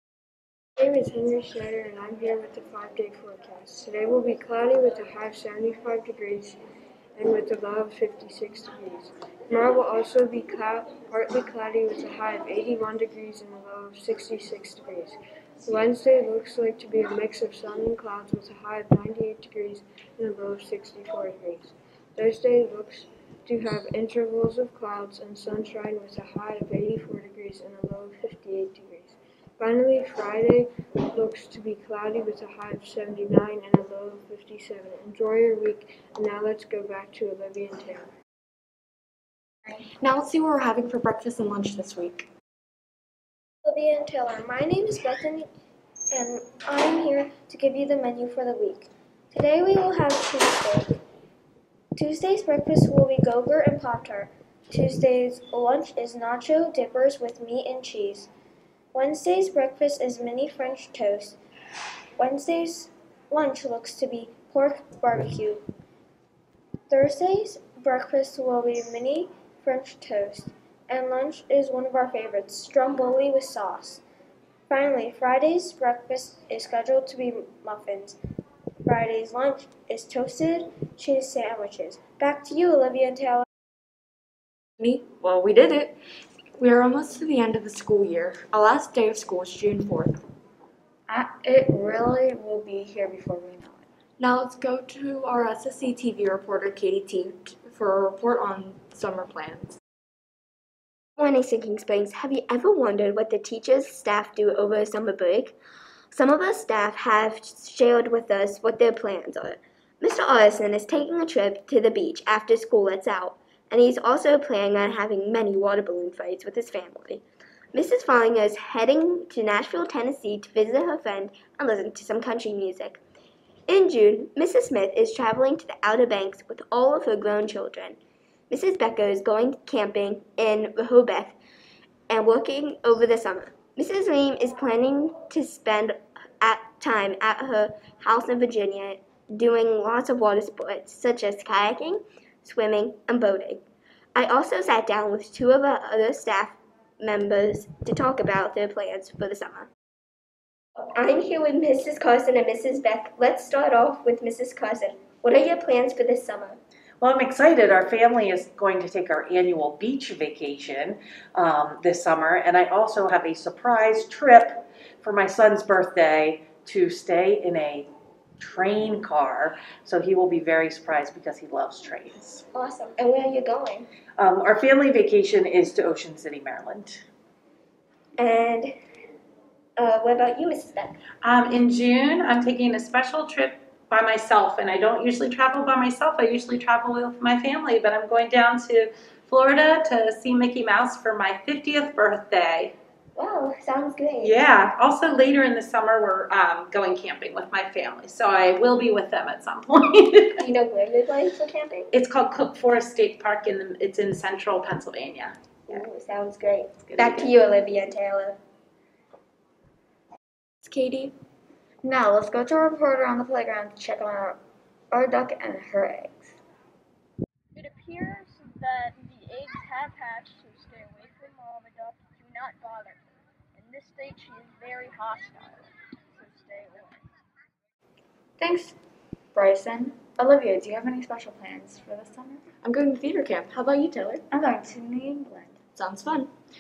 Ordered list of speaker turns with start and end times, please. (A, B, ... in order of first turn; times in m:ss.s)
0:00.8-0:06.6 A
0:07.2-0:38.1 A
0:40.0-0:42.3 B
0:43.6-0:45.5 C
0:46.1-0:51.0 C
0:52.0-0:58.3 C
0:58.9-1:01.4 C
1:02.2-1:05.7 C
1:06.9-1:14.0 C
1:14.7-1:18.2 C
1:18.9-1:23.4 C
1:24.8-1:26.0 B
1:26.6-1:30.2 B
1:31.1-1:33.9 D
1:34.2-1:39.8 B
1:41.2-1:45.6 E
1:46.1-1:57.2 E
1:57.7-2:03.0 E
2:03.7-2:08.0 E
2:08.5-2:11.4 E
2:12.1-2:23.6 E
2:24.2-2:29.7 E
2:30.9-2:36.6 E
2:37.0-2:47.9 F
2:48.4-2:52.4 F
2:52.5-2:53.9 E
2:54.2-2:57.0 F
2:58.2-2:58.7 E
2:59.8-3:01.0 E
3:01.2-3:12.7 G
3:13.2-3:14.4 E
3:14.2-3:20.4 G
3:20.4-3:21.9 E
3:21.9-3:25.8 G
3:25.7-3:28.4 E
3:26.9-3:27.3 G
3:30.6-3:31.1 B
3:31.8-3:34.4 D
3:34.9-3:36.4 D
3:37.6-3:47.1 H
3:48.4-3:48.8 D
3:49.4-3:52.4 D
3:52.6-3:54.2 B
3:54.3-3:55.6 D
3:55.8-3:56.3 B